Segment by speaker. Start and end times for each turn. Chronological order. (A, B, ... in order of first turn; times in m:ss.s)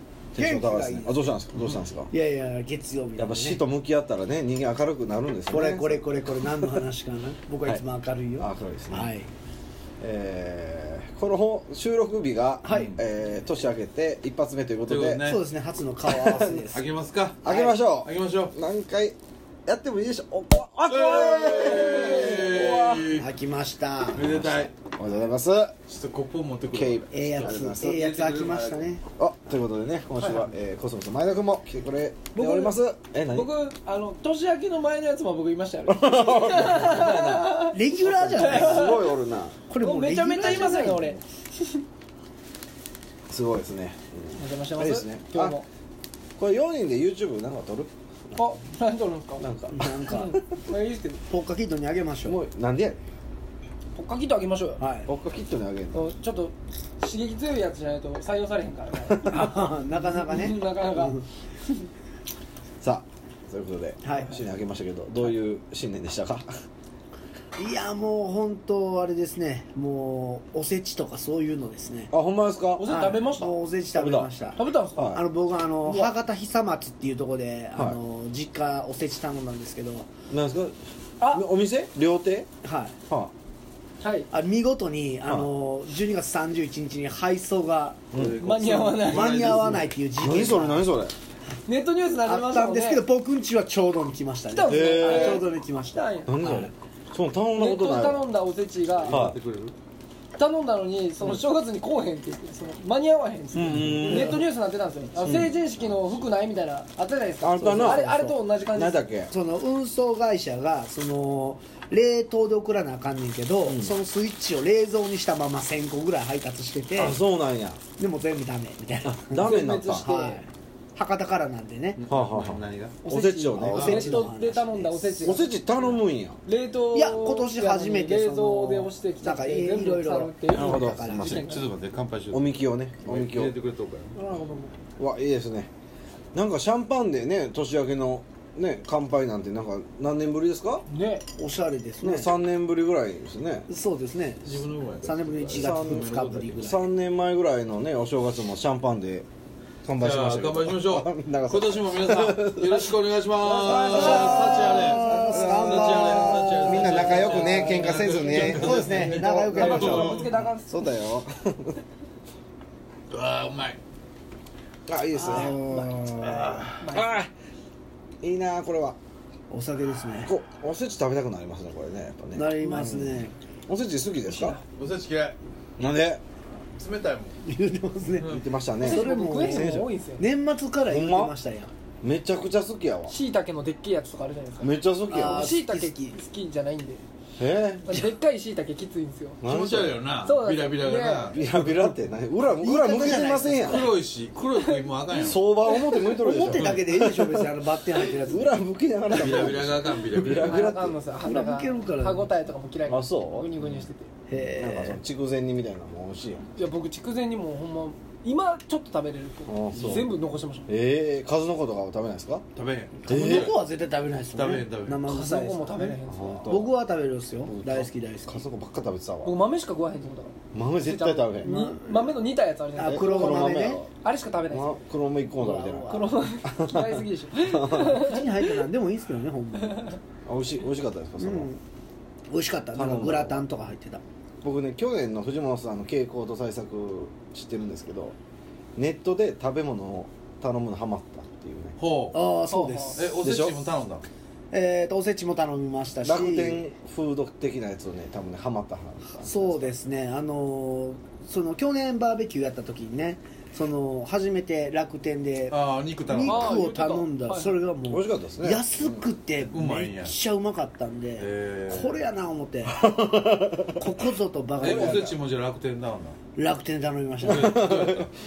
0:00.3-0:02.1 A
0:00.3-0:01.2 B
0:02.1-0:03.6 B
0:03.2-0:06.0 A
0:05.5-0:09.3 B
0:08.4-0:09.1 A
0:10.0-0:15.2 A
0:12.6-0:13.0 B
0:14.8-0:15.4 C
0:15.2-0:16.8 B
0:16.0-0:16.7 A
0:16.7-0:18.5 C
0:17.4-0:23.1 A
0:20.9-0:23.3 C
0:23.1-0:24.4 B
0:24.1-0:24.7 C
0:24.2-0:25.7 A
0:25.9-0:29.0 C
0:26.7-0:27.8 A
0:27.1-0:29.0 B
0:29.2-0:33.5 A
0:30.2-0:30.5 D
0:32.3-0:32.8 D
0:33.3-0:37.8 D
0:35.9-0:39.6 A
0:37.7-0:39.1 B
0:38.4-0:39.0 D
0:39.7-0:41.2 B
0:39.8-0:41.8 D
0:40.4-0:40.8 A
0:43.3-0:45.6 A
0:44.4-0:45.7 D
0:46.4-0:47.9 A
0:48.3-0:49.4 D
0:49.4-0:50.4 A
0:49.7-0:50.4 B
0:50.1-0:51.2 D
0:51.3-0:52.4 B
0:52.2-0:53.0 A
0:53.9-0:54.8 D
0:54.8-0:55.1 B
0:55.0-0:56.1 A
0:55.9-1:01.2 D
0:59.2-1:01.2 B
1:02.8-1:06.5 A
1:04.0-1:04.4 B
1:07.6-1:12.1 B
1:12.1-1:12.9 A
1:12.8-1:13.5 D
1:12.8-1:20.1 B
1:14.0-1:14.4 A
1:14.5-1:15.2 D
1:14.9-1:15.2 A
1:15.8-1:16.1 D
1:20.3-1:22.5 A
1:21.2-1:21.4 D
1:22.6-1:22.9 B
1:24.0-1:24.3 D
1:24.3-1:28.0 B
1:28.1-1:28.4 A
1:28.1-1:30.0 C
1:28.4-1:29.4 D
1:29.0-1:30.9 B
1:29.5-1:31.1 A
1:31.6-1:33.0 D
1:32.2-1:36.7 B
1:34.5-1:36.3 D
1:34.6-1:35.5 A
1:36.3-1:38.3 A
1:37.6-1:39.2 D
1:38.9-1:39.7 C
1:39.1-1:39.4 A
1:40.3-1:49.1 D
1:43.5-1:44.4 A
1:43.7-1:44.4 B
1:45.2-1:45.5 A
1:45.2-1:46.1 C
1:47.4-1:49.3 A
1:47.6-1:48.4 B
1:49.3-1:57.2 B
1:53.6-1:53.9 A
1:56.9-1:57.8 A
1:58.0-2:02.0 B
1:59.0-2:00.1 A
1:59.4-2:00.4 D
2:02.0-2:03.0 C
2:02.1-2:04.3 A
2:03.0-2:05.9 D
2:03.6-2:05.4 B
2:05.2-2:06.4 A
2:06.4-2:11.7 D
2:06.9-2:11.4 B
2:10.5-2:11.4 A
2:11.3-2:14.2 C
2:12.3-2:13.5 A
2:14.2-2:14.7 B
2:15.0-2:15.7 A
2:16.3-2:20.8 A
2:20.9-2:21.2 D
2:21.4-2:22.3 B
2:22.0-2:23.7 A
2:23.7-2:26.8 B
2:24.4-2:26.6 C
2:25.5-2:29.3 A
2:29.8-2:32.9 A
2:30.0-2:40.3 C
2:33.4-2:35.0 D
2:33.5-2:38.8 A
2:33.6-2:40.2 B
2:36.6-2:40.8 D
2:40.4-2:41.8 A
2:43.1-2:43.8 C
2:44.9-2:47.3 A
2:45.1-2:46.1 D
2:46.2-2:46.9 C
2:46.8-2:47.2 D
2:48.2-2:49.0 A
2:49.5-2:50.3 B
2:50.2-2:54.6 A
2:52.3-2:53.3 B
2:52.6-2:52.9 D
2:54.3-2:54.6 D
2:54.7-2:55.4 C
2:55.8-2:56.2 A
2:56.7-2:57.3 C
2:57.4-2:58.3 B
2:58.2-2:59.9 A
2:58.8-3:00.2 D
2:58.8-3:01.7 B
3:00.8-3:01.3 A
3:02.0-3:03.1 A
3:03.1-3:07.0 D
3:04.6-3:05.5 A
3:05.1-3:06.2 B
3:07.4-3:08.1 A
3:07.9-3:09.4 D
3:09.4-3:10.0 A
3:09.4-3:11.4 C
3:10.2-3:11.3 D
3:11.3-3:13.9 A
3:11.6-3:11.9 B
3:12.5-3:13.9 B
3:13.6-3:15.4 C
3:15.1-3:21.0 A
3:15.9-3:18.5 B
3:19.1-3:20.7 C
3:19.1-3:19.5 B
3:20.3-3:24.1 D
3:21.2-3:22.3 B
3:22.8-3:23.5 A
3:24.3-3:25.0 B
3:24.4-3:26.5 A
3:26.5-3:30.7 D
3:29.5-3:30.1 A
3:30.7-3:32.4 A
3:32.5-3:33.6 C
3:33.0-3:38.4 B
3:33.1-3:33.6 A
3:34.3-3:35.1 C
3:35.0-3:36.6 D
3:36.1-3:36.7 A
3:37.4-3:39.4 A
3:39.2-3:44.7 D
3:40.5-3:41.5 A
3:41.4-3:42.1 B
3:42.8-3:43.8 B
3:42.8-3:43.9 A
3:44.5-3:48.1 A
3:45.4-3:46.1 B
3:45.9-3:48.5 D
3:47.8-3:49.9 B
3:50.2-3:51.5 A
3:51.2-3:51.6 B
3:52.3-3:54.0 B
3:52.7-3:53.4 A
3:54.4-3:58.1 A
3:58.8-4:01.8 A
4:01.8-4:02.3 C
4:02.1-4:03.2 B
4:02.5-4:03.0 D
4:02.9-4:04.0 C
4:03.2-4:03.7 A
4:04.5-4:06.6 B
4:06.0-4:09.7 A
4:09.2-4:23.0 B
4:15.5-4:16.6 C
4:16.2-4:17.6 D
4:17.9-4:19.0 A
4:19.5-4:20.1 C
4:21.2-4:22.0 C
4:22.8-4:23.8 A
4:23.6-4:25.1 B
4:24.6-4:26.2 C
4:24.6-4:25.1 A
4:26.4-4:28.0 B
4:27.2-4:28.1 C
4:27.3-4:28.0 A